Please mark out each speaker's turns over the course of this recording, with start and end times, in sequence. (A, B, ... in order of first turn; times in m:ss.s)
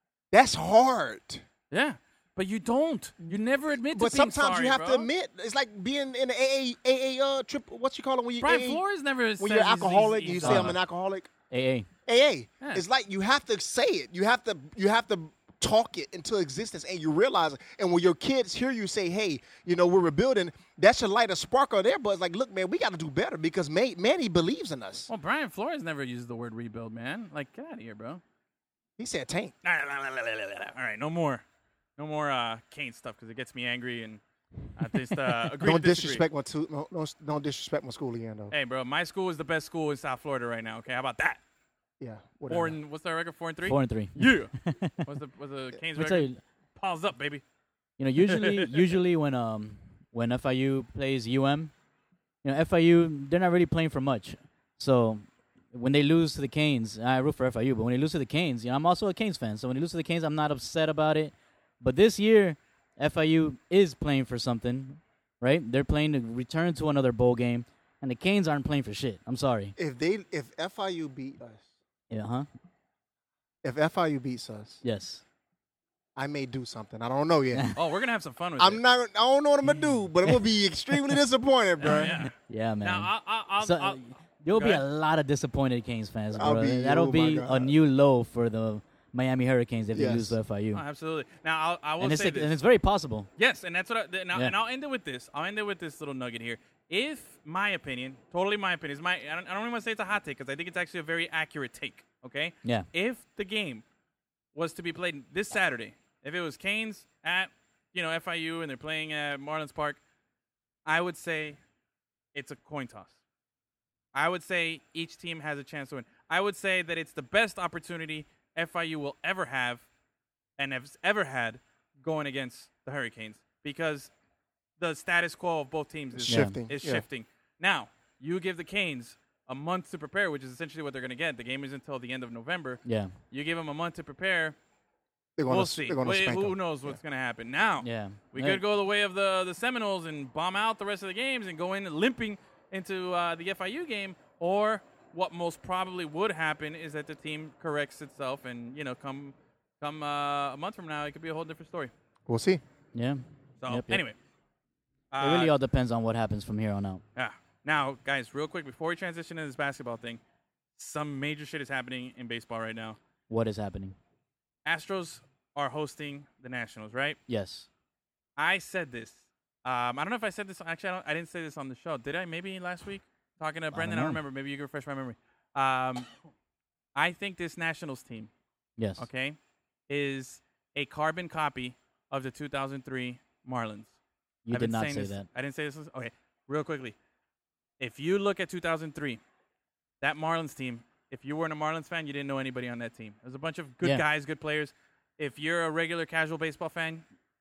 0:00.3-0:01.4 A
0:01.7-0:05.1 B
0:03.3-0:08.8 A
0:08.4-0:10.8 B
0:09.4-0:11.3 A
0:10.4-0:10.8 C
0:11.5-0:11.9 C
0:12.1-0:25.1 A
0:25.1-0:28.2 B
0:29.0-0:29.5 A
0:29.6-0:31.4 B
0:32.0-0:34.2 B
0:34.8-0:36.2 B
0:35.6-0:38.5 A
0:38.5-0:41.4 B
0:42.0-0:42.8 A
0:42.5-0:47.4 B
0:43.6-0:45.0 C
0:46.0-0:46.4 C
0:48.0-0:51.7 C
0:48.3-0:48.8 B
0:52.4-1:09.8 C
1:09.8-1:11.7 A
1:12.1-1:12.5 C
1:13.6-1:14.8 A
1:14.8-1:15.2 C
1:16.2-1:17.7 A
1:17.8-1:18.8 B
1:18.6-1:22.2 A
1:21.8-1:24.8 B
1:21.9-1:30.8 C
1:26.4-1:27.7 A
1:29.9-1:30.4 A
1:30.7-1:32.6 B
1:32.0-1:33.3 C
1:33.4-1:43.8 B
1:44.6-1:50.0 B
1:50.8-1:51.6 B
1:52.4-1:53.2 B
1:54.1-1:59.8 B
2:00.6-2:04.1 B
2:04.8-2:14.6 B
2:06.1-2:07.0 A
2:06.3-2:06.6 C
2:12.8-2:13.1 C
2:15.4-2:17.0 A
2:15.5-2:31.9 B
2:17.8-2:18.6 C
2:32.3-2:32.6 A
2:32.9-2:34.0 C
2:33.6-2:34.2 B
2:35.1-2:35.5 B
2:35.2-2:37.0 C
2:37.2-2:40.2 B
2:40.8-2:43.0 B
2:43.3-2:44.0 C
2:44.6-2:47.2 B
2:47.3-2:47.7 C
2:48.4-2:56.1 B
2:53.7-2:54.2 C
2:57.0-2:58.3 B
2:58.8-2:59.1 C
2:59.0-2:59.4 B
2:59.9-3:04.0 B
3:04.5-3:05.3 C
3:04.5-3:07.0 B
3:07.8-3:09.2 B
3:10.0-3:17.0 B